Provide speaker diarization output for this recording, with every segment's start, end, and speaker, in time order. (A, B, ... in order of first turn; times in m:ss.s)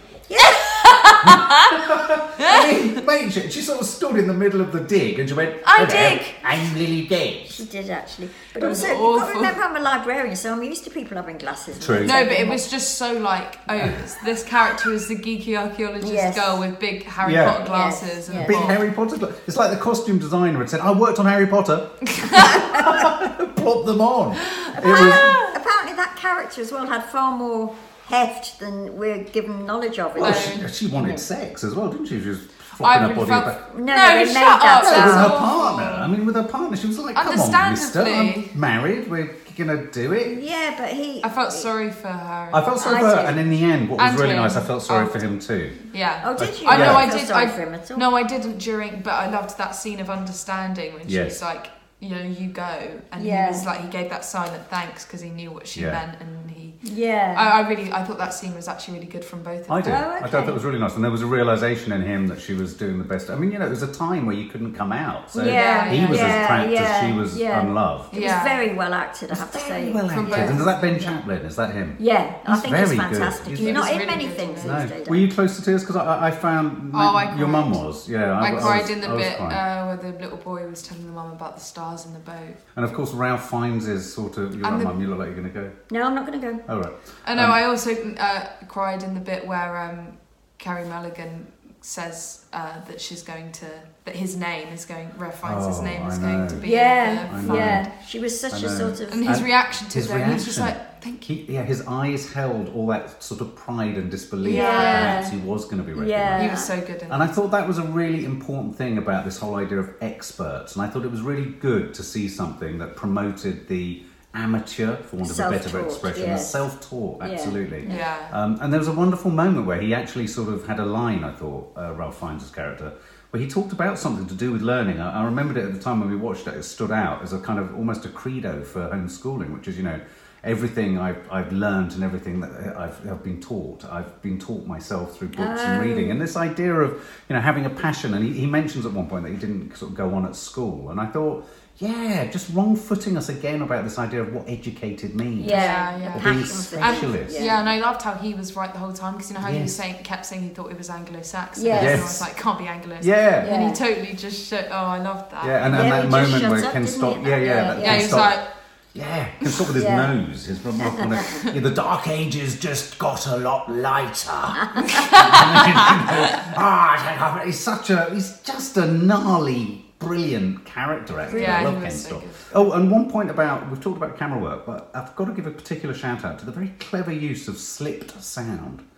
0:00.3-0:01.1 A
0:00.4-0:03.0 B
0:01.2-0:07.6 C
0:05.6-0:06.4 B
0:07.5-0:12.7 A
0:08.6-0:09.6 B
0:08.6-0:08.9 C
0:11.8-0:12.2 C
0:12.0-0:18.8 B
0:13.8-0:14.1 C
0:16.0-0:16.6 A
0:17.2-0:17.7 C
0:17.6-0:18.8 A
0:18.3-0:25.4 C
0:22.1-0:22.7 B
0:22.4-0:23.0 A
0:24.4-0:25.6 B
0:24.7-0:31.2 A
0:30.2-0:33.6 C
0:30.2-0:30.7 B
0:32.8-0:36.1 B
0:33.7-0:35.4 A
0:34.8-0:40.4 C
0:37.2-0:38.5 B
0:40.2-0:41.7 A
0:41.2-0:43.2 B
0:42.5-0:45.8 C
0:42.8-0:43.4 A
0:44.0-0:45.2 B
0:45.9-0:56.8 B
0:46.2-0:48.0 A
0:46.4-0:47.1 C
0:51.0-0:51.4 C
0:53.2-0:53.7 A
0:55.7-0:56.0 C
0:56.8-0:57.5 A
0:57.3-1:00.0 B
0:59.7-1:08.1 C
0:59.8-1:00.6 A
1:05.3-1:10.6 A
1:05.4-1:06.6 B
1:08.1-1:08.6 B
1:09.3-1:19.6 C
1:10.1-1:11.2 B
1:12.0-1:15.3 A
1:13.5-1:14.8 B
1:16.9-1:17.8 B
1:18.4-1:22.6 B
1:22.7-1:25.8 C
1:24.6-1:24.9 B
1:25.9-1:26.6 A
1:26.6-1:27.6 C
1:27.2-1:37.9 B
1:35.4-1:36.6 C
1:36.6-1:39.3 A
1:37.2-1:37.9 C
1:38.5-1:46.5 C
1:39.1-1:41.3 B
1:44.4-1:45.2 B
1:44.4-1:45.3 A
1:45.9-1:46.7 A
1:46.4-1:47.3 B
1:47.1-2:27.5 C
1:55.2-1:56.6 A
1:57.2-1:58.0 A
1:57.8-1:58.4 B
2:15.4-2:16.2 A
2:25.4-2:27.7 A
2:25.5-2:36.0 B
2:29.4-2:29.8 C
2:31.6-2:32.0 A
2:31.7-2:32.3 C
2:33.0-2:33.6 C
2:33.4-2:33.8 A
2:35.4-2:38.4 C
2:35.7-2:38.2 A
2:37.7-2:38.4 B
2:38.9-2:58.8 C
2:39.7-2:40.1 A
2:40.8-2:41.4 A
2:44.7-2:44.9 A
2:44.8-2:46.1 B
2:51.3-2:51.7 A
2:51.3-2:52.7 B